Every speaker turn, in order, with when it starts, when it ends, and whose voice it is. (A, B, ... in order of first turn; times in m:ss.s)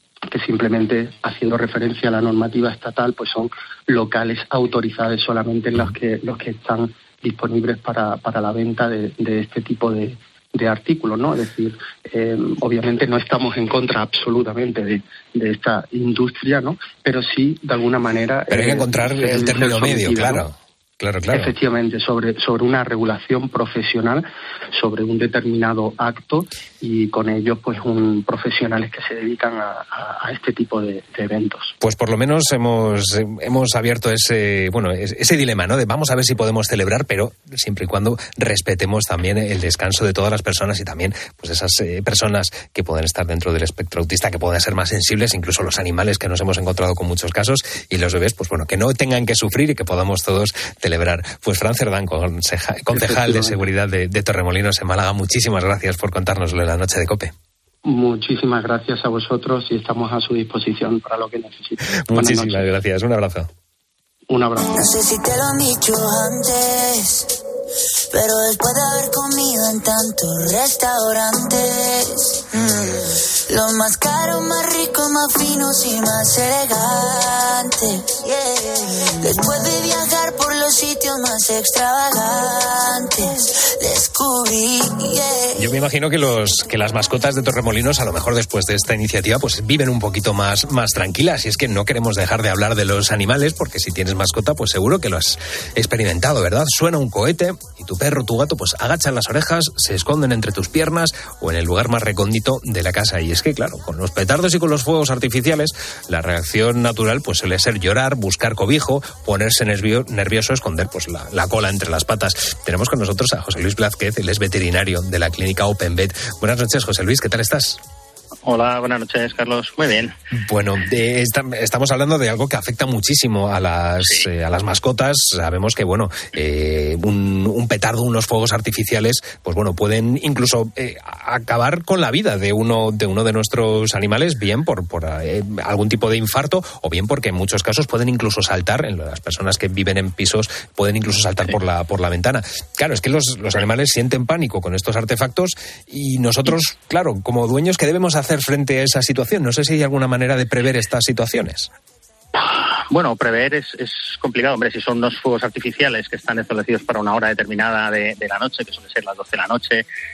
0:00.3-0:20.5 A
0:18.5-0:21.5 B
0:21.3-0:31.7 A
0:31.8-0:57.3 B
0:52.9-0:53.6 A
0:57.8-1:02.6 A
1:02.1-1:03.5 B
1:04.3-1:04.8 A
1:04.7-1:07.3 C
1:08.1-1:25.6 C
1:25.6-1:57.8 B
1:58.4-2:00.1 D
2:00.3-2:31.7 B
2:32.3-2:39.8 D